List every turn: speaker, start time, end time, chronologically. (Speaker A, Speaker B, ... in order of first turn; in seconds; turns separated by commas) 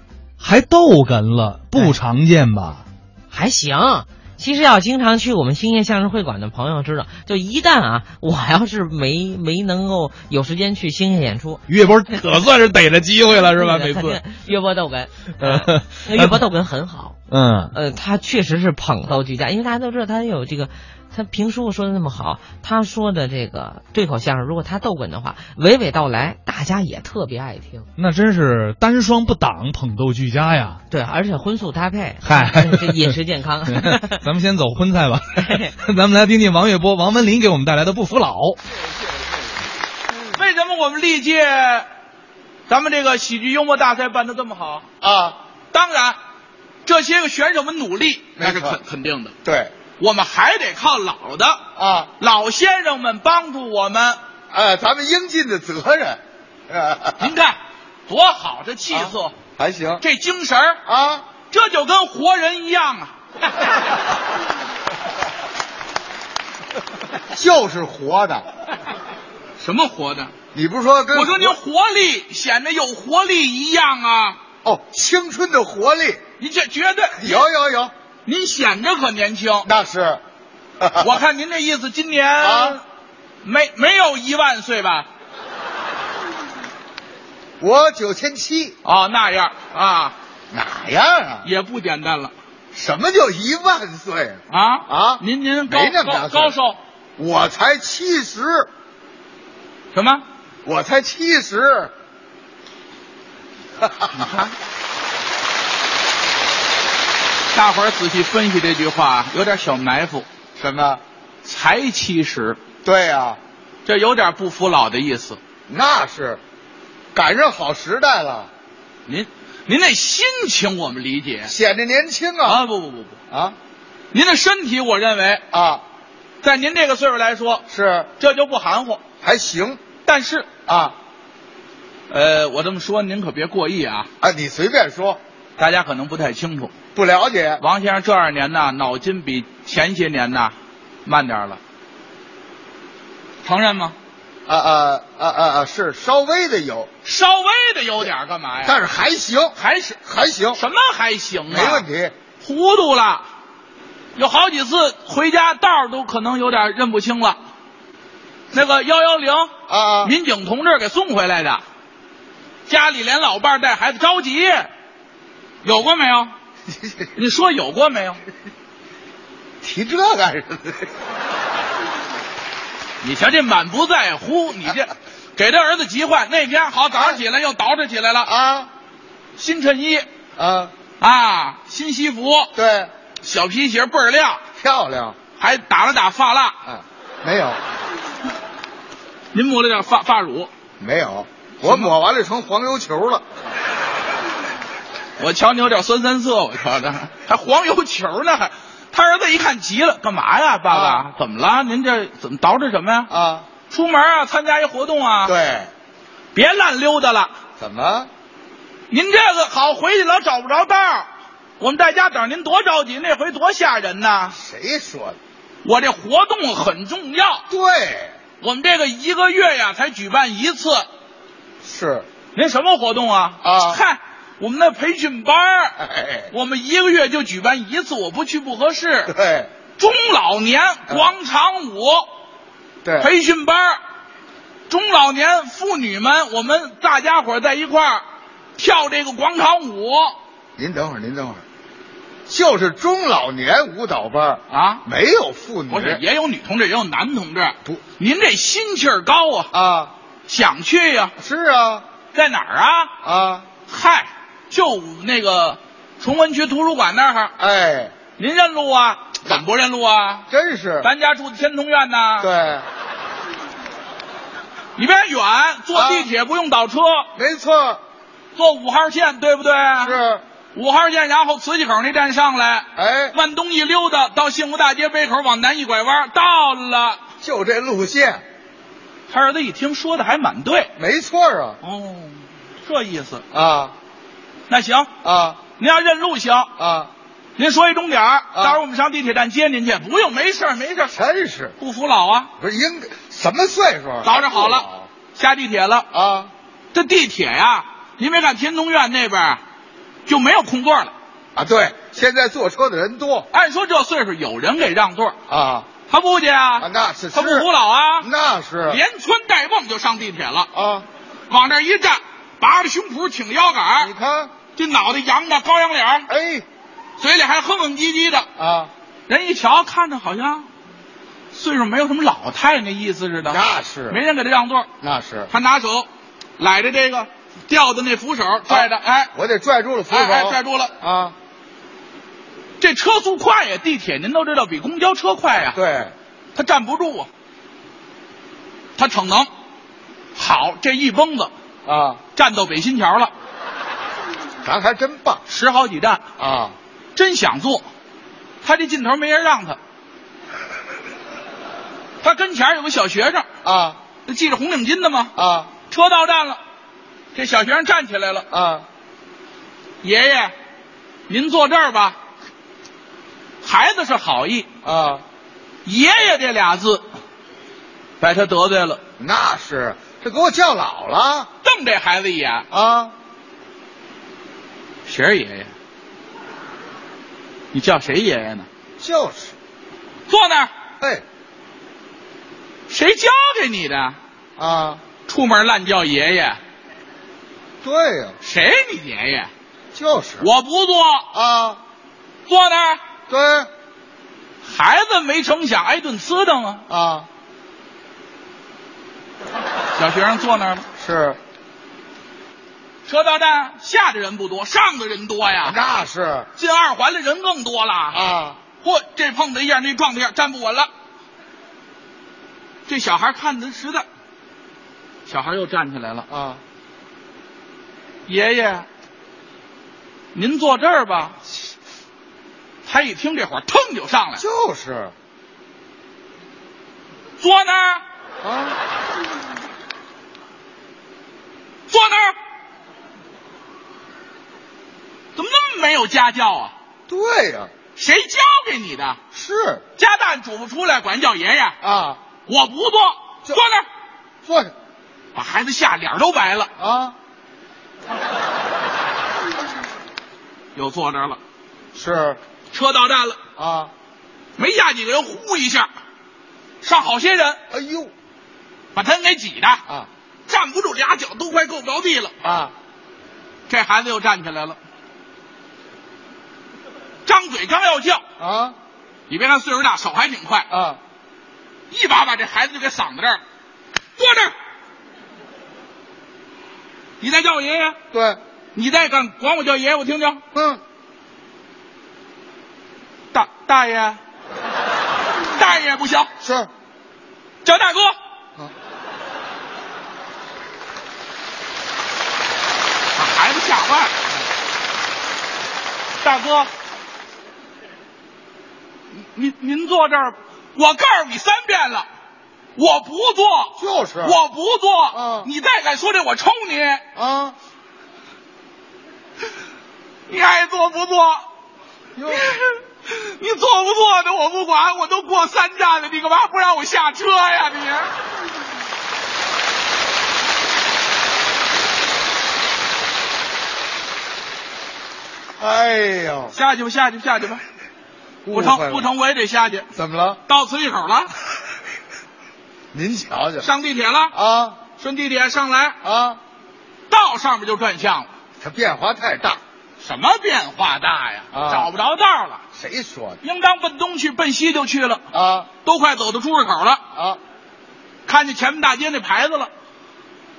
Speaker A: 0.4-2.8, Speaker B: 3.3-11.6, Speaker A: 11.7-14.2, Speaker B: 13.4-17.2, Speaker A: 15.4-16.4, Speaker A: 17.3-17.7, Speaker B: 17.7-27.9, Speaker A: 28.0-30.8, Speaker B: 30.9-34.2, Speaker A: 32.2-38.6, Speaker B: 35.4-35.7, Speaker C: 40.3-41.9, Speaker C: 42.7-44.9, Speaker D: 45.0-45.4, Speaker C: 45.7-46.2, Speaker C: 46.8-49.3, Speaker D: 48.4-48.8, Speaker D: 49.4-49.7, Speaker C: 50.0-51.6, Speaker D: 51.8-52.1, Speaker C: 52.2-54.2, Speaker D: 54.5-57.3, Speaker C: 57.2-57.5, Speaker C: 58.1-59.3, Speaker D: 58.9-60.0, Speaker C: 60.0-60.8, Speaker D: 60.9-61.3, Speaker C: 61.5-63.1, Speaker D: 67.3-68.4, Speaker C: 69.6-70.3, Speaker D: 70.5-71.6, Speaker C: 71.1-74.4, Speaker D: 74.6-76.2, Speaker C: 76.4-77.4, Speaker D: 77.2-77.9, Speaker C: 78.2-79.7, Speaker D: 79.6-80.2, Speaker D: 80.8-81.1, Speaker C: 81.0-82.8, Speaker D: 82.4-82.8, Speaker C: 83.4-85.1, Speaker D: 87.6-88.8, Speaker C: 88.8-90.1, Speaker D: 90.5-91.5, Speaker C: 91.4-92.3, Speaker D: 92.7-96.5, Speaker C: 94.5-96.8, Speaker D: 97.2-98.7, Speaker C: 99.9-100.2, Speaker D: 100.6-101.9, Speaker D: 103.8-104.2, Speaker C: 104.1-104.5, Speaker C: 107.5-110.2, Speaker D: 110.6-111.0, Speaker C: 111.4-112.6, Speaker D: 112.8-113.4, Speaker C: 113.8-115.4, Speaker D: 115.7-116.4, Speaker D: 117.1-118.5, Speaker C: 119.0-121.5, Speaker D: 121.5-122.6, Speaker C: 122.4-123.2, Speaker D: 123.3-123.5, Speaker C: 124.1-125.4, Speaker D: 125.5-125.8, Speaker C: 126.4-127.6, Speaker D: 127.7-128.1, Speaker C: 128.2-129.0, Speaker D: 129.2-129.8, Speaker C: 130.0-130.5, Speaker D: 130.7-130.9, Speaker C: 132.1-134.1, Speaker D: 134.2-135.2, Speaker C: 135.6-136.7, Speaker D: 136.9-137.6, Speaker C: 137.6-140.5, Speaker C: 141.0-141.6, Speaker C: 143.4-143.9, Speaker D: 144.5-146.9, Speaker C: 147.0-148.8, Speaker D: 148.6-150.6, Speaker C: 149.6-150.0, Speaker C: 150.5-151.9, Speaker D: 151.5-152.1, Speaker C: 152.4-153.2, Speaker C: 154.2-157.4, Speaker C: 158.5-159.5, Speaker D: 159.7-160.1, Speaker C: 160.0-161.6, Speaker C: 162.7-164.7, Speaker C: 165.6-166.3, Speaker D: 166.7-167.1, Speaker C: 167.1-168.2, Speaker D: 169.6-170.9, Speaker C: 173.0-178.3, Speaker D: 176.9-177.2, Speaker D: 178.2-178.7, Speaker C: 179.4-180.0, Speaker D: 180.4-180.7, Speaker C: 181.0-182.5, Speaker D: 182.5-182.9, Speaker C: 183.2-184.4, Speaker D: 184.6-185.2, Speaker C: 185.4-186.5, Speaker D: 186.7-187.6, Speaker C: 189.3-190.5, Speaker D: 190.8-193.2, Speaker C: 191.6-191.9, Speaker C: 195.2-203.1, Speaker D: 200.7-201.0, Speaker D: 203.1-203.4, Speaker C: 203.7-205.3, Speaker D: 205.2-205.7, Speaker C: 206.3-207.3, Speaker D: 207.6-208.1, Speaker C: 208.9-211.1, Speaker C: 211.6-214.3, Speaker D: 214.3-215.2, Speaker C: 215.6-217.4, Speaker D: 217.5-218.1, Speaker C: 218.4-220.8, Speaker D: 221.6-222.1, Speaker C: 222.3-225.8, Speaker D: 223.4-223.8, Speaker D: 225.8-226.3, Speaker C: 226.3-229.1, Speaker D: 229.1-229.5, Speaker C: 229.8-232.1, Speaker D: 230.9-231.1, Speaker D: 232.8-233.1, Speaker C: 233.0-233.8, Speaker C: 234.7-238.0, Speaker C: 238.6-240.1, Speaker D: 240.6-241.4, Speaker D: 242.3-246.0, Speaker C: 244.5-244.8, Speaker C: 245.7-249.5, Speaker D: 249.5-249.9, Speaker C: 250.3-251.1, Speaker D: 251.2-251.8, Speaker C: 252.1-252.9, Speaker D: 253.0-253.5, Speaker C: 253.7-257.3, Speaker D: 257.4-257.9, Speaker C: 258.2-260.2, Speaker D: 260.3-260.9, Speaker C: 260.8-262.3, Speaker D: 262.2-262.6, Speaker C: 264.8-267.1, Speaker D: 265.7-266.1, Speaker D: 267.1-267.8, Speaker C: 268.3-270.0, Speaker D: 269.8-270.2, Speaker C: 270.5-277.0, Speaker D: 272.8-273.1, Speaker D: 277.2-278.2, Speaker C: 279.1-280.7, Speaker D: 280.8-281.6, Speaker C: 281.6-283.2, Speaker D: 283.3-283.7, Speaker C: 284.5-284.9, Speaker D: 285.0-285.4, Speaker C: 285.6-286.5, Speaker D: 286.6-286.9, Speaker C: 287.4-291.0, Speaker D: 288.3-288.6, Speaker D: 290.9-291.6, Speaker C: 291.6-292.3, Speaker D: 292.4-294.9, Speaker C: 294.0-295.9, Speaker D: 295.9-296.3, Speaker C: 296.7-299.4, Speaker C: 300.1-300.9, Speaker D: 301.3-303.3, Speaker C: 303.3-305.2, Speaker D: 305.3-305.7, Speaker C: 305.9-308.1, Speaker D: 306.6-307.5, Speaker D: 308.0-308.8, Speaker C: 308.7-310.5, Speaker D: 310.5-310.9, Speaker C: 311.3-313.9, Speaker D: 313.8-314.3, Speaker C: 314.5-316.1, Speaker D: 316.1-316.4, Speaker C: 317.0-318.2, Speaker D: 318.4-318.7, Speaker C: 319.1-320.5, Speaker C: 321.3-324.7, Speaker D: 323.3-324.0, Speaker D: 324.8-325.3, Speaker C: 325.3-325.9, Speaker C: 326.4-329.1, Speaker D: 328.5-331.1, Speaker C: 329.9-330.7, Speaker C: 332.6-335.6, Speaker D: 335.5-335.9, Speaker C: 336.3-337.1, Speaker C: 338.8-339.3, Speaker C: 340.1-341.3, Speaker D: 341.6-342.0, Speaker C: 342.1-343.1, Speaker D: 344.4-345.2, Speaker C: 345.3-346.0, Speaker D: 346.2-346.5, Speaker C: 346.9-347.6, Speaker C: 348.4-349.6, Speaker C: 352.0-353.2, Speaker D: 353.4-353.8, Speaker C: 354.1-355.1, Speaker D: 355.1-355.5, Speaker C: 355.7-356.4, Speaker C: 357.1-358.2, Speaker D: 358.3-358.6, Speaker C: 359.8-360.3, Speaker C: 361.1-362.0, Speaker C: 363.4-364.5, Speaker D: 364.6-365.0, Speaker C: 365.6-366.8, Speaker C: 368.0-368.8, Speaker D: 369.0-371.3, Speaker C: 371.4-372.4, Speaker D: 372.5-372.9, Speaker C: 374.9-375.5, Speaker C: 377.5-378.5, Speaker D: 378.8-379.3, Speaker C: 380.1-380.5, Speaker C: 382.7-384.0, Speaker D: 384.4-384.8, Speaker C: 385.1-386.4, Speaker D: 387.6-388.2, Speaker C: 388.2-389.3, Speaker D: 389.7-390.3, Speaker C: 390.2-391.1, Speaker D: 391.1-391.6, Speaker C: 392.3-392.8, Speaker D: 393.1-393.5, Speaker C: 394.4-396.6, Speaker D: 396.7-397.1, Speaker C: 399.8-400.6, Speaker D: 400.8-401.2, Speaker C: 402.9-405.6, Speaker D: 405.4-406.3, Speaker C: 406.4-408.1, Speaker D: 407.9-408.4, Speaker C: 408.6-410.7, Speaker C: 412.7-413.9, Speaker C: 415.1-416.1, Speaker D: 416.1-416.4, Speaker C: 418.1-418.7, Speaker C: 420.1-421.2, Speaker C: 422.6-424.2, Speaker D: 424.2-424.9, Speaker C: 427.2-427.8, Speaker D: 428.2-428.6, Speaker C: 431.7-432.1, Speaker C: 435.1-436.5, Speaker D: 436.9-437.5, Speaker C: 437.8-439.0, Speaker D: 439.1-439.6, Speaker C: 439.8-441.6, Speaker D: 441.6-442.0, Speaker C: 442.2-443.6, Speaker D: 444.2-444.5, Speaker C: 445.1-446.5, Speaker D: 446.6-446.9, Speaker C: 450.5-451.2, Speaker D: 451.7-452.2, Speaker C: 452.5-453.2, Speaker D: 453.4-453.7, Speaker C: 454.4-455.7, Speaker C: 456.6-457.4, Speaker D: 457.5-457.9, Speaker C: 458.7-459.6, Speaker C: 460.3-462.1, Speaker D: 462.2-462.5, Speaker C: 463.5-464.6, Speaker C: 467.0-468.0, Speaker D: 468.2-468.6, Speaker C: 469.1-470.5, Speaker D: 470.5-470.8, Speaker C: 471.7-473.2, Speaker C: 474.0-474.3, Speaker C: 477.0-477.8, Speaker D: 477.9-478.2, Speaker C: 478.5-480.2, Speaker D: 480.3-480.6, Speaker C: 483.1-484.0, Speaker C: 485.4-486.1, Speaker D: 486.2-486.5, Speaker C: 487.4-487.9, Speaker C: 492.9-493.9, Speaker C: 496.0-496.5, Speaker C: 498.9-501.9, Speaker C: 502.6-506.8, Speaker D: 503.6-504.2, Speaker D: 504.9-505.3, Speaker D: 506.9-507.4, Speaker C: 510.1-511.2, Speaker D: 511.9-512.3, Speaker C: 512.1-517.9, Speaker D: 525.4-526.3, Speaker C: 526.3-527.4, Speaker D: 528.2-528.9, Speaker C: 528.3-529.7, Speaker D: 529.7-530.2, Speaker C: 530.3-531.1, Speaker D: 532.7-533.5, Speaker C: 533.4-534.1, Speaker D: 534.1-534.6, Speaker C: 534.8-535.8, Speaker D: 535.8-536.2, Speaker C: 536.9-538.1, Speaker D: 538.4-539.4, Speaker C: 539.8-542.4, Speaker D: 541.3-541.7, Speaker D: 542.5-543.2, Speaker C: 543.2-545.0, Speaker D: 545.1-545.5, Speaker C: 545.6-546.8, Speaker D: 546.9-547.2, Speaker C: 548.0-549.5